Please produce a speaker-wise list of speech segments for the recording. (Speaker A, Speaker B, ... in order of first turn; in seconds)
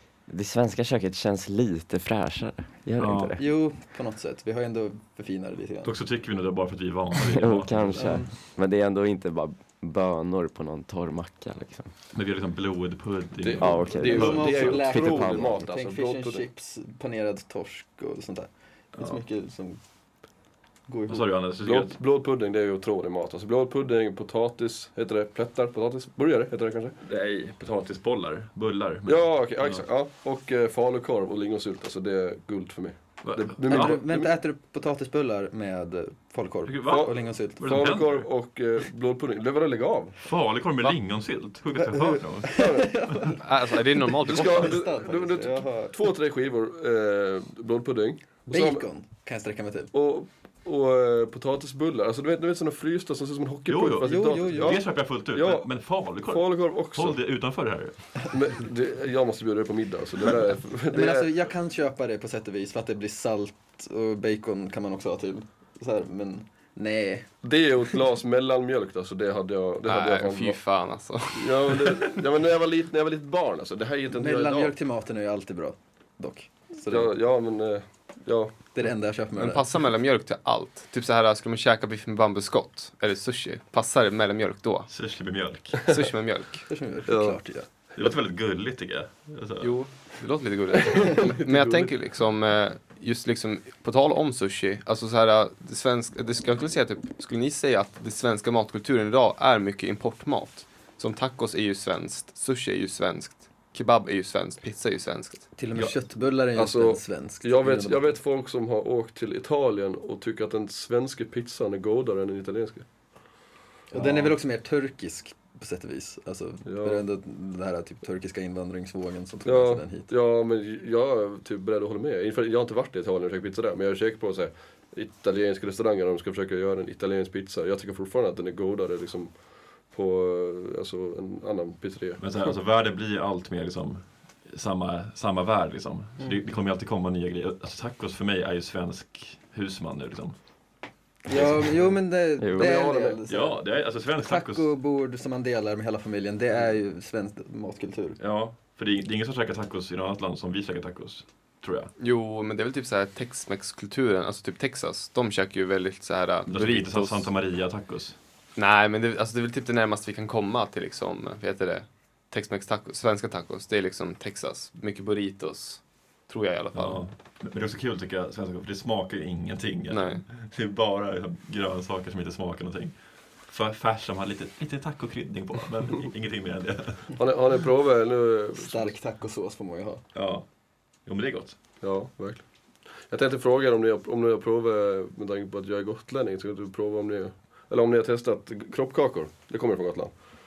Speaker A: 0.3-3.4, 7.3-11.9, 13.6-15.6, 142.4-142.8
Speaker B: 3.0-3.4, 5.8-8.3, 12.1-14.8, 18.9-19.2, 21.1-22.0, 27.0-29.8, 33.2-34.0, 36.6-38.3, 40.2-43.2, 53.7-58.2, 84.9-85.9, 88.0-89.7, 132.2-140.4, 141.3-142.0, 143.3-144.7, 148.2-151.9, 156.5-158.2, 166.7-177.2, 180.1-180.4, 181.0-181.6
Speaker C: 3.4-5.9, 8.0-8.3, 14.0-19.8, 20.9-21.3, 33.6-37.7, 42.4-43.4, 44.3-46.0, 48.5-49.9, 54.0-54.8, 60.9-67.3, 74.1-77.1, 78.7-79.7, 86.7-87.7, 105.5-108.2, 113.9-120.1, 141.2-148.2, 178.6-180.0
Speaker D: 13.4-16.5, 21.6-27.0, 29.1-34.3, 36.9-40.2, 42.5-43.0, 44.2-48.8, 49.9-57.2, 58.3-61.3, 67.4-70.6, 71.3-74.7, 76.9-78.5, 87.1-87.4, 90.9-91.9, 106.5-112.8, 113.9-114.3, 116.6-117.0, 119.5-132.2, 142.6-143.2, 177.2-178.9, 181.8-182.4, 183.0-190.1
Speaker E: 43.3-44.9, 69.8-72.0, 79.3-84.9, 85.8-86.7, 89.6-105.5, 152.0-157.3, 158.6-167.1, 169.9-170.2